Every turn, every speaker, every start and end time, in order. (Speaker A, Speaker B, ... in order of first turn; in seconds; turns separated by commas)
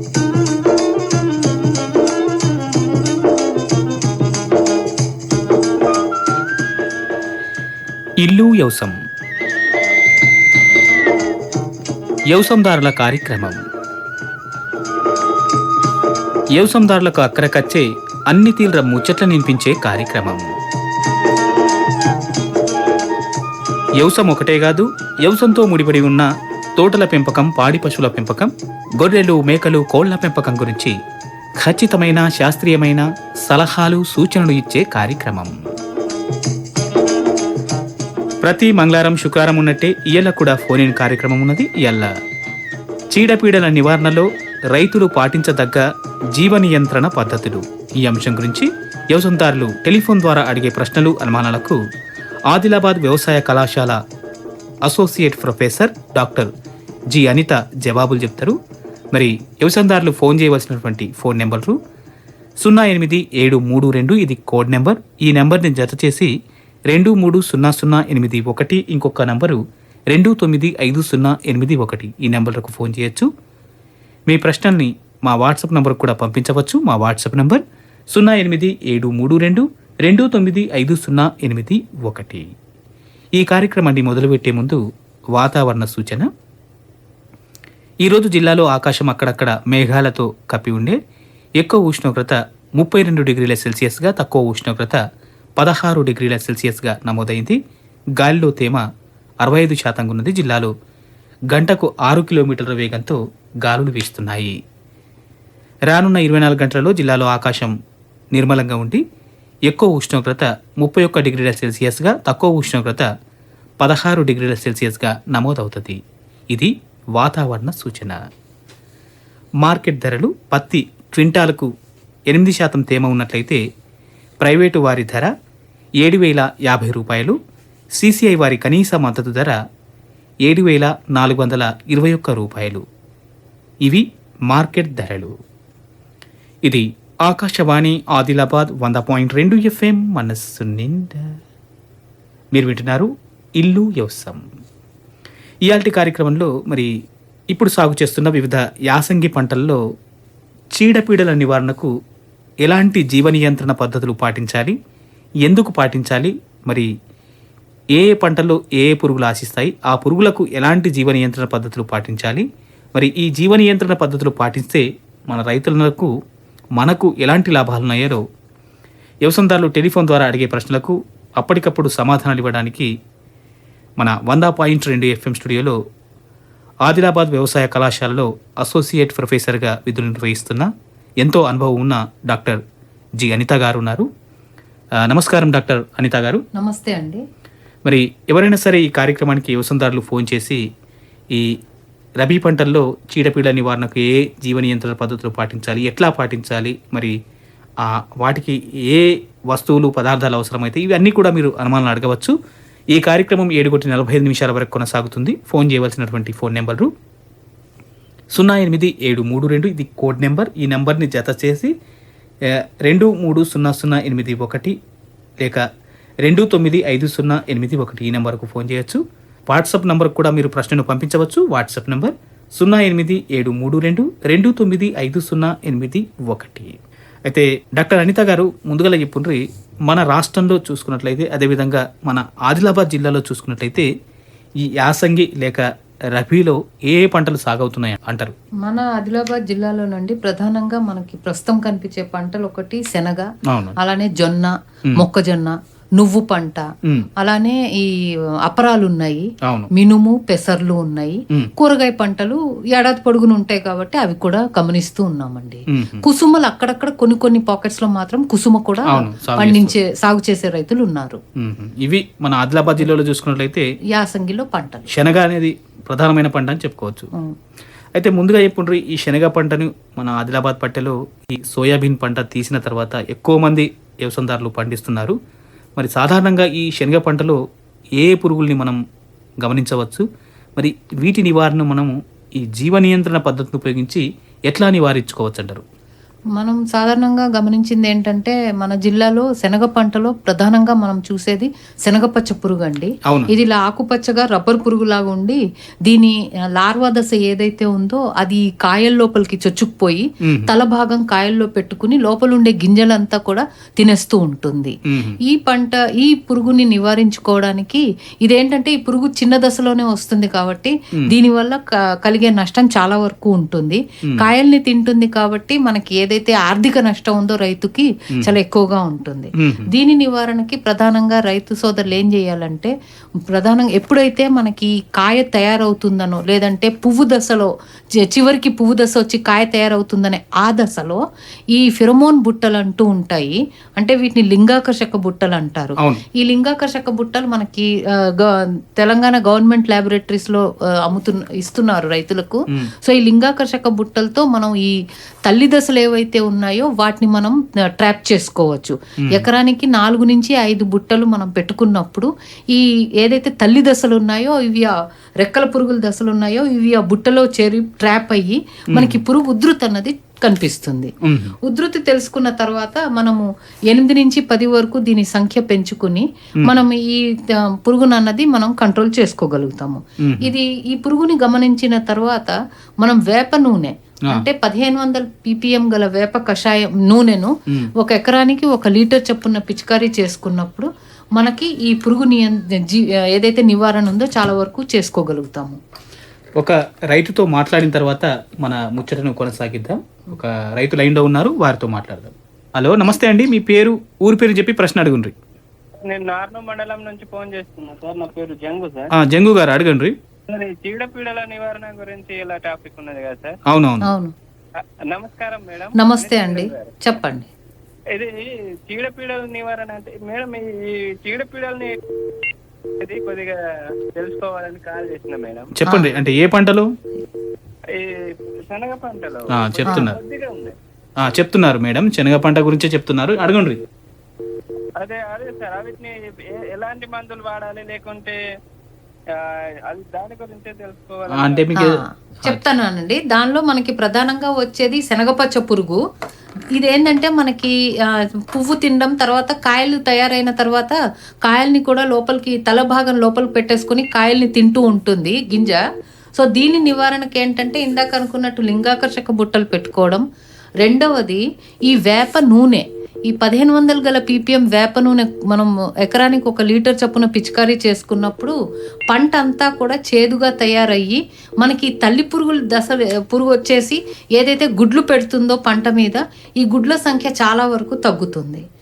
Speaker A: 8.2-9.0, Speaker A: 12.3-13.6, Speaker A: 16.5-20.5, Speaker A: 24.0-31.0, Speaker A: 31.6-35.6, Speaker A: 38.4-42.1, Speaker A: 43.1-51.8, Speaker A: 52.5-54.0, Speaker A: 54.8-56.5, Speaker A: 57.1-58.6, Speaker A: 59.1-61.8, Speaker A: 62.6-66.3, Speaker A: 66.9-73.3, Speaker A: 74.3-82.5, Speaker A: 83.3-84.8, Speaker A: 85.3-86.3, Speaker A: 88.0-91.0, Speaker A: 91.6-95.0, Speaker A: 95.6-97.6, Speaker A: 98.2-98.8, Speaker A: 99.4-100.7, Speaker A: 101.5-104.6, Speaker A: 105.9-107.7, Speaker A: 108.3-109.0, Speaker A: 109.7-113.1, Speaker A: 113.8-116.0, Speaker A: 116.5-118.2, Speaker A: 119.6-121.7, Speaker A: 122.3-123.6, Speaker A: 124.4-125.3, Speaker A: 126.0-127.4, Speaker A: 128.0-129.6, Speaker A: 130.4-132.8, Speaker A: 133.8-135.4, Speaker A: 136.7-141.3, Speaker A: 142.5-144.4, Speaker A: 145.6-146.9, Speaker A: 147.5-149.8, Speaker A: 150.8-151.9, Speaker A: 152.6-154.8, Speaker A: 155.4-156.9, Speaker A: 157.9-166.1, Speaker A: 166.8-168.2, Speaker A: 169.2-172.9, Speaker A: 174.0-175.8, Speaker A: 176.8-182.6, Speaker A: 183.2-184.1, Speaker A: 185.0-186.4, Speaker B: 186.5-187.2, Speaker A: 187.8-190.6, Speaker A: 192.2-197.2, Speaker A: 197.8-202.3, Speaker A: 202.9-206.9, Speaker A: 208.3-211.7, Speaker A: 212.5-214.8, Speaker A: 216.2-233.9, Speaker A: 234.6-238.3, Speaker B: 238.6-247.9, Speaker A: 243.5-243.8, Speaker B: 248.4-261.2, Speaker A: 249.4-249.7, Speaker A: 255.7-256.0, Speaker A: 258.9-259.8, Speaker A: 261.4-263.6, Speaker B: 263.9-264.9, Speaker A: 264.9-267.1, Speaker A: 267.9-275.2, Speaker A: 275.8-277.4, Speaker A: 278.0-278.8, Speaker A: 279.4-280.0, Speaker A: 280.6-285.6, Speaker B: 286.4-322.7, Speaker A: 293.1-293.3, Speaker A: 300.2-300.5, Speaker A: 304.9-305.2, Speaker A: 319.4-319.7, Speaker B: 323.3-331.0, Speaker B: 331.5-360.9, Speaker A: 335.8-336.0, Speaker A: 358.7-359.0, Speaker A: 361.0-361.3, Speaker B: 361.4-385.6, Speaker A: 370.0-370.3, Speaker A: 386.4-395.1, Speaker C: 395.8-398.9, Speaker A: 398.9-399.9, Speaker C: 400.3-403.4, Speaker A: 403.5-403.9, Speaker B: 403.8-404.1, Speaker C: 404.9-406.8, Speaker B: 405.8-407.3, Speaker C: 407.9-411.8, Speaker C: 412.8-413.4, Speaker C: 413.9-415.5, Speaker A: 415.6-416.7, Speaker B: 415.6-416.0, Speaker C: 417.7-420.5, Speaker A: 419.3-420.0, Speaker A: 421.0-423.6, Speaker C: 424.8-428.2, Speaker C: 429.1-431.5, Speaker A: 431.1-432.4, Speaker B: 431.5-435.8, Speaker B: 436.5-445.6, Speaker B: 446.2-450.0, Speaker B: 450.6-458.4, Speaker B: 458.9-468.4